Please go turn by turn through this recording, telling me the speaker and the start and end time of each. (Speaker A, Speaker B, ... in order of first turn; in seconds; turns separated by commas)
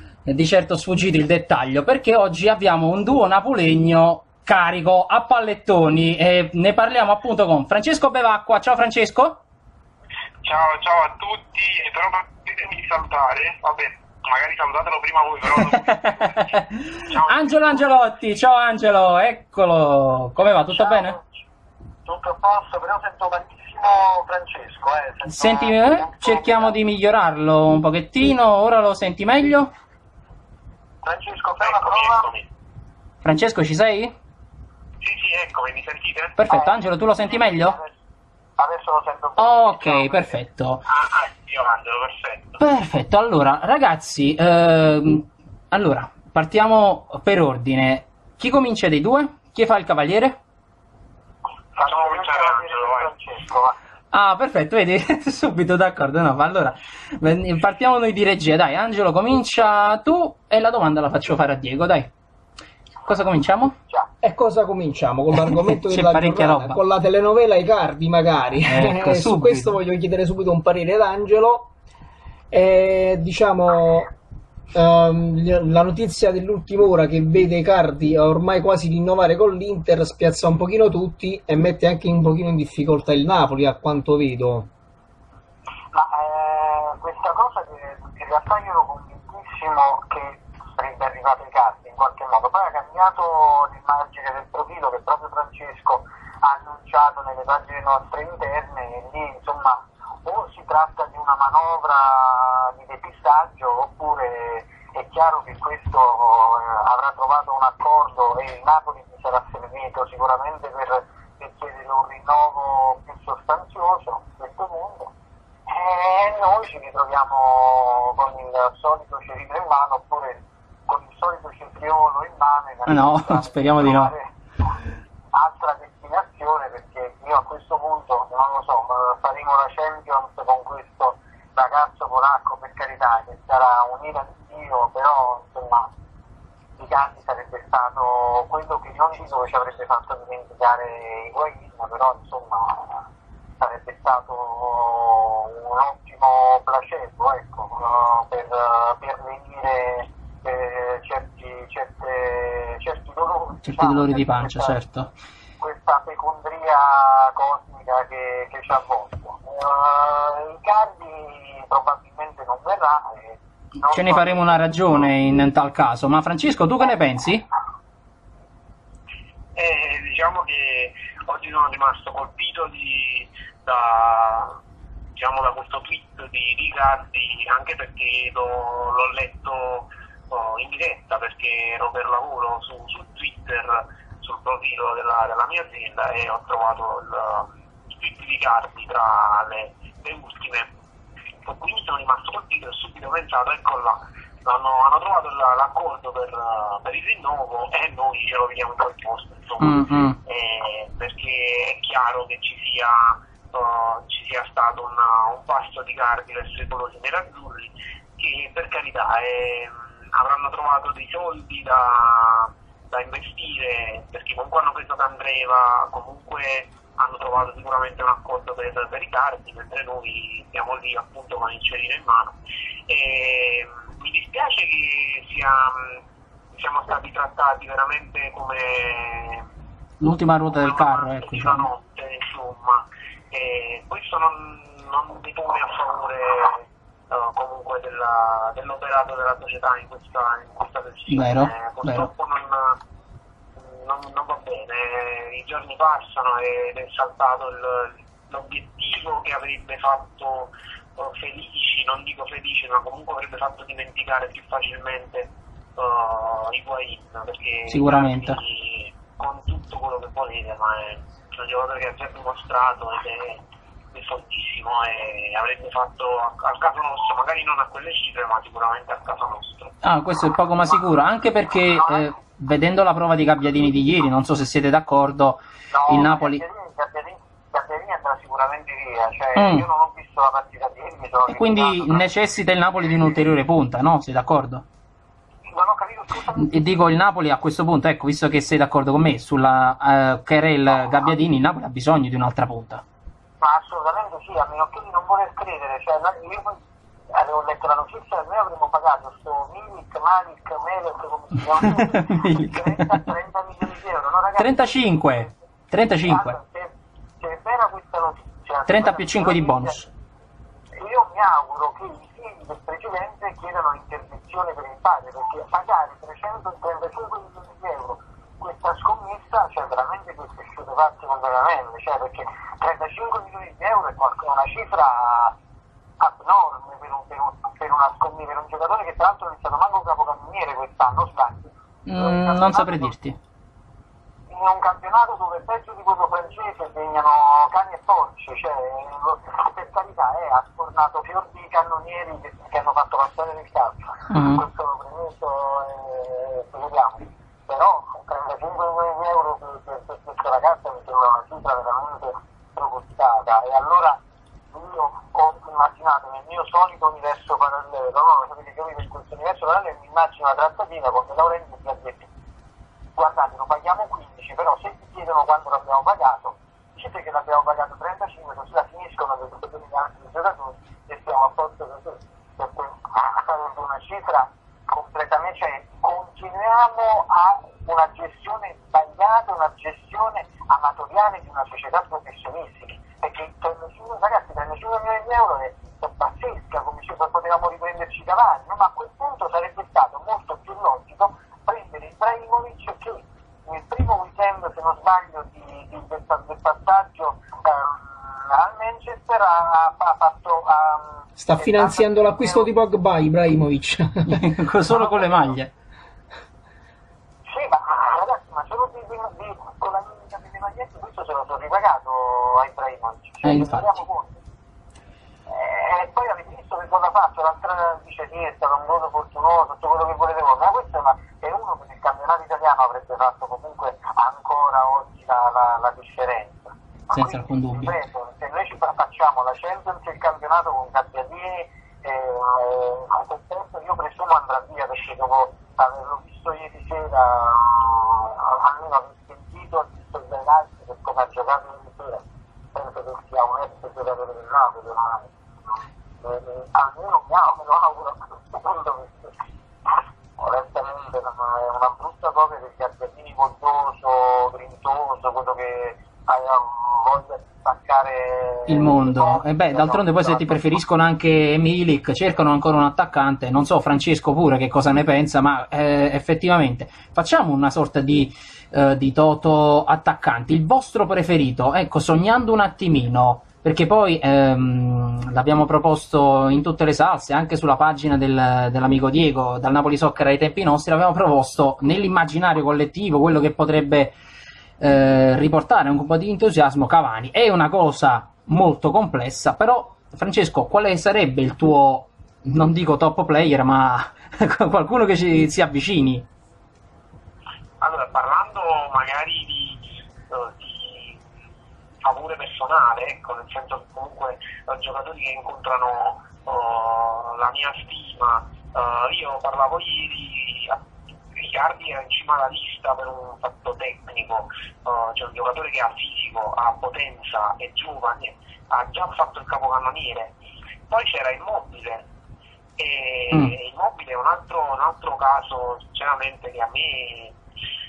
Speaker A: 0.2-9.4, Speaker B: 10.4-17.8, Speaker A: 15.6-21.1, Speaker C: 20.7-21.4, Speaker C: 22.0-26.8, Speaker A: 25.2-29.7, Speaker C: 31.0-32.3, Speaker B: 31.6-32.5, Speaker A: 33.2-34.1, Speaker B: 35.0-36.4, Speaker A: 36.4-37.8, Speaker C: 36.5-37.9, Speaker C: 38.6-40.3, Speaker A: 39.4-40.8, Speaker B: 40.9-42.6, Speaker A: 42.6-50.4, Speaker C: 51.8-53.8, Speaker B: 51.8-53.1, Speaker A: 54.1-62.1, Speaker A: 63.0-63.8, Speaker D: 64.2-71.7, Speaker A: 65.4-66.8, Speaker A: 68.7-69.8, Speaker D: 72.5-74.1, Speaker D: 74.7-84.7, Speaker C: 85.9-115.1, Speaker C: 115.7-124.3, Speaker A: 122.9-124.1, Speaker C: 125.3-135.9, Speaker C: 136.8-143.1, Speaker C: 143.6-154.7, Speaker A: 153.6-155.1, Speaker C: 155.6-164.6, Speaker A: 163.9-167.4, Speaker B: 169.5-174.6, Speaker B: 175.1-190.7, Speaker B: 191.4-222.4, Speaker A: 199.6-200.2, Speaker B: 222.9-226.0, Speaker B: 226.5-229.5, Speaker A: 230.0-231.7, Speaker B: 230.5-242.8, Speaker A: 241.1-242.1, Speaker B: 243.6-269.7, Speaker A: 257.7-258.4, Speaker A: 269.8-276.4, Speaker C: 275.7-282.1, Speaker A: 279.3-279.6, Speaker A: 281.3-284.6, Speaker C: 285.5-286.7, Speaker A: 286.4-292.8, Speaker C: 293.4-296.6, Speaker C: 297.1-304.7, Speaker A: 301.6-303.0, Speaker A: 304.4-306.4, Speaker C: 306.1-309.8, Speaker A: 308.7-309.9, Speaker C: 310.8-325.3, Speaker C: 326.0-332.9, Speaker A: 331.9-333.2, Speaker C: 334.3-354.0, Speaker A: 344.1-344.4, Speaker C: 354.5-362.1, Speaker C: 362.9-402.5, Speaker D: 401.2-404.3, Speaker A: 404.1-405.5, Speaker C: 404.8-405.3, Speaker C: 407.3-414.2, Speaker A: 413.2-413.8, Speaker C: 415.3-445.1, Speaker A: 426.9-427.7, Speaker C: 446.0-449.1, Speaker C: 450.2-460.6, Speaker A: 458.5-483.9, Speaker A: 484.6-496.1, Speaker B: 497.6-501.1, Speaker B: 501.8-521.8, Speaker B: 522.6-527.1